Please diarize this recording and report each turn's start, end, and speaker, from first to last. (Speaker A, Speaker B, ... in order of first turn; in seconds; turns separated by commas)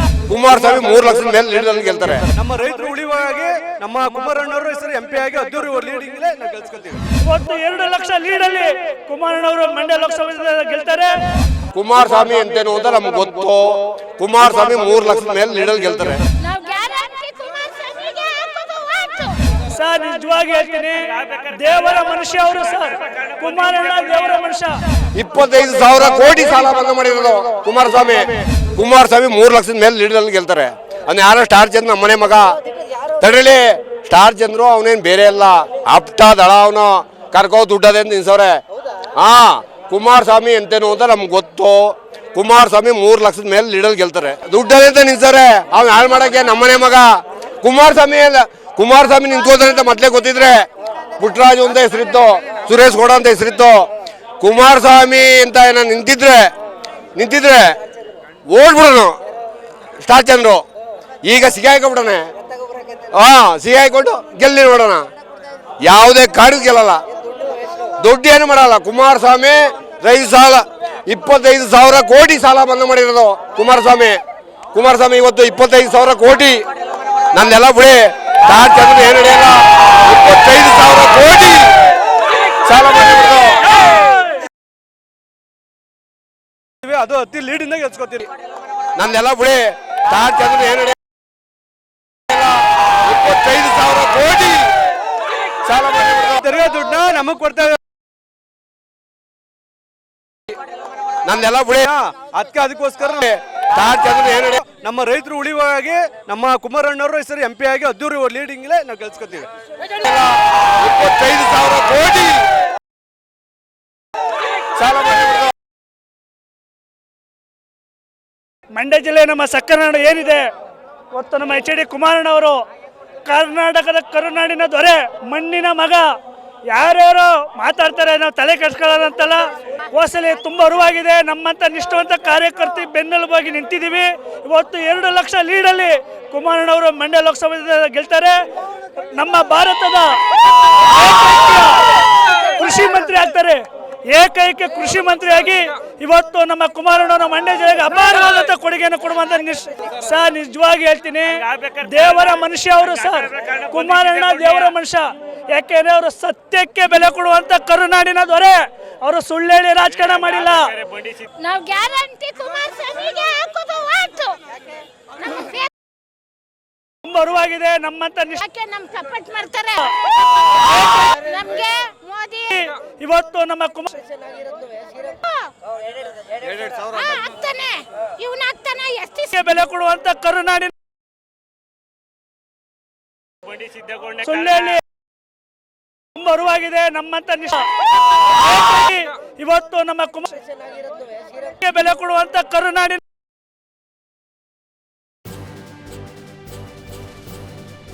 Speaker A: 0.3-2.3, Speaker B: 2.3-7.0, Speaker C: 7.2-11.2, Speaker A: 11.7-16.2, Speaker D: 16.4-19.4, Speaker C: 19.7-24.8, Speaker A: 25.1-32.6, Speaker A: 33.2-38.6, Speaker A: 39.2-50.6, Speaker A: 51.2-53.9, Speaker A: 54.4-56.5, Speaker A: 57.1-57.8, Speaker A: 58.5-59.2, Speaker A: 60.0-60.6, Speaker A: 61.2-62.3, Speaker A: 63.1-65.0, Speaker A: 65.8-67.0, Speaker A: 68.0-74.2, Speaker A: 74.7-76.6, Speaker A: 77.3-81.9, Speaker A: 82.6-83.8, Speaker B: 86.8-88.3, Speaker A: 88.9-91.0, Speaker A: 92.3-94.7, Speaker A: 95.6-96.4, Speaker B: 96.4-97.8, Speaker A: 101.2-101.9, Speaker B: 101.8-103.2, Speaker A: 103.2-104.7, Speaker B: 104.7-109.5, Speaker A: 109.9-112.5, Speaker A: 114.7-115.5, Speaker C: 118.7-120.5, Speaker C: 121.1-122.6, Speaker C: 123.2-126.1, Speaker C: 126.7-138.4, Speaker C: 139.1-141.9, Speaker C: 142.4-160.8, Speaker D: 161.4-164.5, Speaker D: 165.2-165.7, Speaker C: 167.0-168.4, Speaker D: 168.4-172.6, Speaker C: 172.6-173.9, Speaker D: 175.0-175.5, Speaker D: 176.4-179.3, Speaker C: 179.3-180.7, Speaker C: 184.1-184.8, Speaker C: 186.1-190.3, Speaker C: 191.6-193.0